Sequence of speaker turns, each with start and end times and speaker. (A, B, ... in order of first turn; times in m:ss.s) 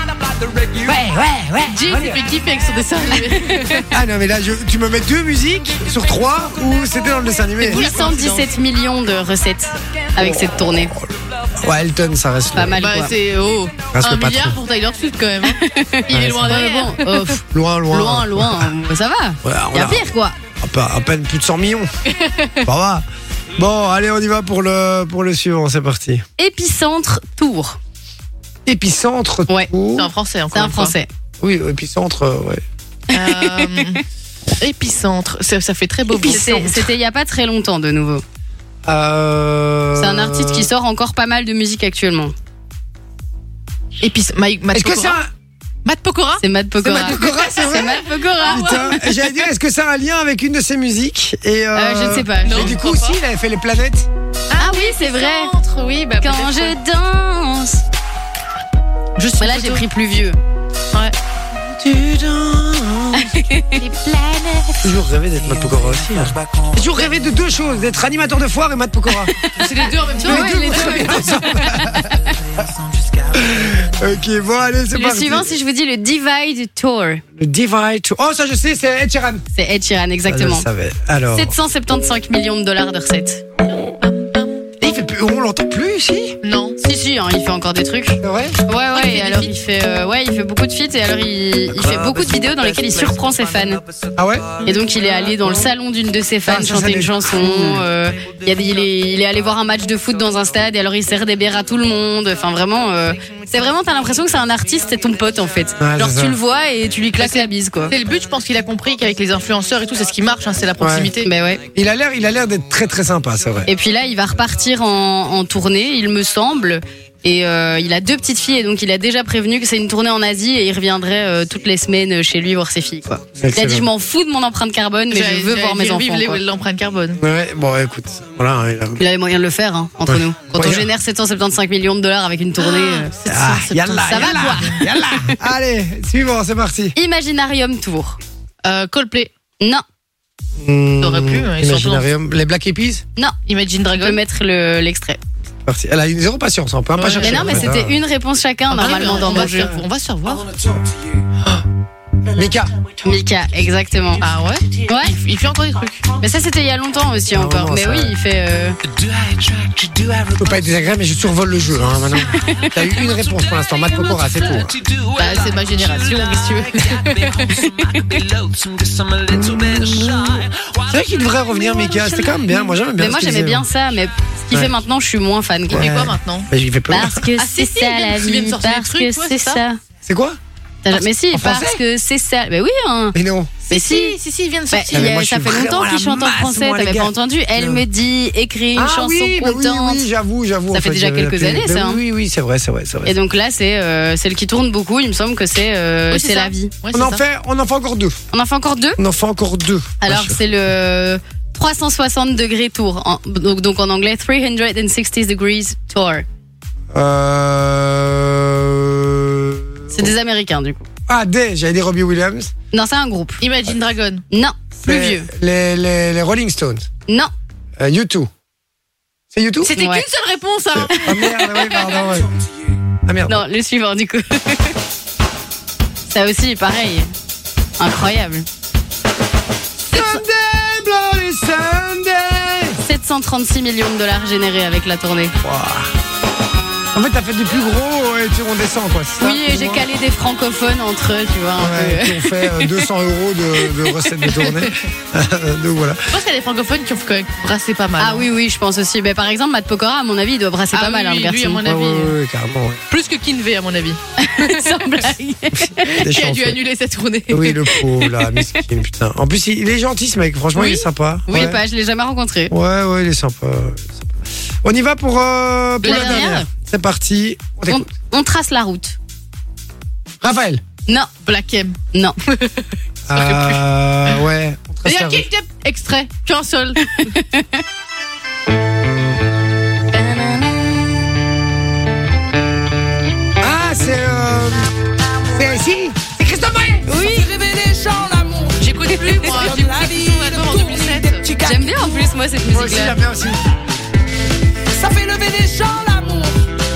0:00.2-0:00.9 A
0:00.8-0:02.2 B
0:01.7-0:03.9 C
0:03.0-0:03.8 D
0:03.9-0:08.0 B
0:07.6-0:08.5 C
0:07.7-0:10.9 D
0:10.2-0:12.9 B
0:12.5-0:13.1 D
0:12.8-0:17.4 C
0:13.9-0:14.6 B
0:15.5-0:20.4 D
0:16.1-0:16.6 B
0:17.5-0:18.7 B
0:19.4-0:21.9 B
0:22.6-0:26.2 B
0:26.4-0:27.8 D
0:28.6-0:30.1 B
0:30.0-0:31.0 C
0:30.5-0:31.1 D
0:31.4-0:32.6 B
0:33.1-0:33.7 D
0:33.1-0:34.0 C
0:34.6-0:36.7 C
0:36.1-0:36.9 B
0:36.2-0:38.2 D
0:38.8-0:40.7 B
0:40.0-0:42.3 D
0:44.0-0:45.2 C
0:44.7-0:45.3 B
0:45.8-0:49.0 C
0:46.4-0:49.2 D
0:46.8-0:54.1 B
0:51.7-0:52.8 D
0:52.3-0:53.2 C
0:54.5-0:56.8 C
0:54.6-0:55.5 D
0:56.2-0:57.8 D
0:59.2-0:59.8 C
0:59.4-1:00.4 D
1:01.5-1:03.4 B
1:03.2-1:03.8 D
1:03.8-1:05.0 C
1:04.8-1:09.3 B
1:09.1-1:12.0 D
1:09.5-1:11.4 C
1:10.2-1:12.4 B
1:13.3-1:15.5 B
1:14.9-1:17.2 D
1:17.4-1:19.4 B
1:19.5-1:20.7 D
1:20.2-1:21.5 B
1:21.3-1:23.4 D
1:23.6-1:23.9 B
1:24.0-1:24.7 C
1:24.8-1:26.4 B
1:26.4-1:26.8 C
1:26.8-1:33.8 D
1:28.2-1:28.6 B
1:28.9-1:29.5 C
1:34.2-1:34.4 B
1:34.6-1:47.9 D
1:36.4-1:37.8 B
1:45.8-1:46.4 B
1:47.2-1:51.3 C
1:50.8-1:51.1 B
1:51.2-1:51.6 D
1:51.7-1:53.7 B
1:53.6-2:06.4 D
2:03.4-2:03.9 B
2:05.1-2:07.2 C
2:07.2-2:09.0 B
2:09.0-2:13.1 D
2:10.1-2:10.9 B
2:12.6-2:14.8 C
2:13.2-2:16.9 B
2:14.0-2:15.4 D
2:16.9-2:18.2 D
2:18.6-2:19.3 C
2:20.6-2:23.0 B
2:21.0-2:22.1 C
2:23.5-2:24.2 C
2:23.9-2:25.2 D
2:25.6-2:28.0 B
2:27.0-2:27.7 C
2:27.2-2:29.8 D
2:28.7-2:30.5 C
2:29.3-2:29.7 B
2:30.6-2:31.5 B
2:32.3-2:32.7 B
2:33.0-2:34.2 D
2:34.2-2:36.1 C
2:34.8-2:35.1 D
2:36.2-2:38.8 D
2:37.3-2:38.1 B
2:39.2-2:40.4 A
2:40.4-2:44.8 B
2:42.4-2:42.7 D
2:44.8-2:45.7 A
2:45.1-2:47.5 C
2:47.0-2:50.8 A
2:47.5-2:48.2 D
2:49.3-2:53.7 B
2:53.0-2:55.9 D
2:55.7-2:57.3 B
2:55.7-2:56.5 C
2:56.9-2:59.8 D
2:57.4-2:59.6 C
3:00.0-3:00.4 B
3:00.8-3:03.2 D
3:00.9-3:01.8 B
3:03.1-3:03.6 B
3:03.7-3:05.2 C
3:03.7-3:04.2 D
3:04.7-3:10.1 D
3:04.9-3:07.8 B
3:08.7-3:13.2 B
3:10.7-3:12.0 D
3:13.0-3:16.7 D
3:16.1-3:17.2 C
3:16.9-3:18.1 B
3:18.3-3:19.0 D
3:19.0-3:20.4 B
3:20.0-3:26.2 D
3:26.9-3:30.1 B
3:29.9-3:30.8 D
3:31.1-3:32.5 B
3:32.7-3:33.4 D
3:33.4-3:34.2 C
3:34.3-3:35.3 D
3:34.8-3:36.9 B
3:37.8-3:38.3 B
3:39.3-3:39.7 B
3:39.6-3:42.2 C
3:39.7-3:40.0 D
3:40.7-3:42.3 B
3:40.9-3:41.5 D
3:43.0-3:43.4 B
3:43.3-3:44.8 D
3:46.1-3:47.1 D
3:47.8-3:48.4 D
3:49.9-3:52.8 B
3:49.9-3:50.2 D
3:52.8-3:55.3 D
3:55.4-3:55.9 B
3:56.9-3:59.9 B
3:59.2-4:02.8 D
4:01.6-4:06.0 B
4:03.6-4:04.0 D
4:04.4-4:04.7 C
4:06.1-4:08.3 C
4:08.0-4:11.6 D
4:10.7-4:12.1 C
4:11.6-4:12.8 B
4:12.9-4:14.8 C
4:14.2-4:15.9 D
4:16.0-4:16.6 B
4:16.0-4:17.6 C
4:17.3-4:21.6 B
4:17.8-4:18.4 D
4:20.5-4:22.5 D
4:22.5-4:27.9 B
4:25.8-4:26.4 C
4:25.8-4:26.5 D
4:27.7-4:29.0 D
4:30.2-4:30.6 B
4:31.2-4:34.2 C
4:33.1-4:35.3 B
4:34.8-4:37.1 C
4:36.9-4:37.6 D
4:39.9-4:40.7 D
4:43.4-4:44.7 B
4:45.3-4:46.9 B
4:46.9-4:47.3 D
4:47.1-4:48.6 A
4:48.6-4:51.3 C
4:49.6-4:51.8 A
4:51.4-4:53.0 D
4:52.5-4:53.4 B
4:54.7-4:56.4 A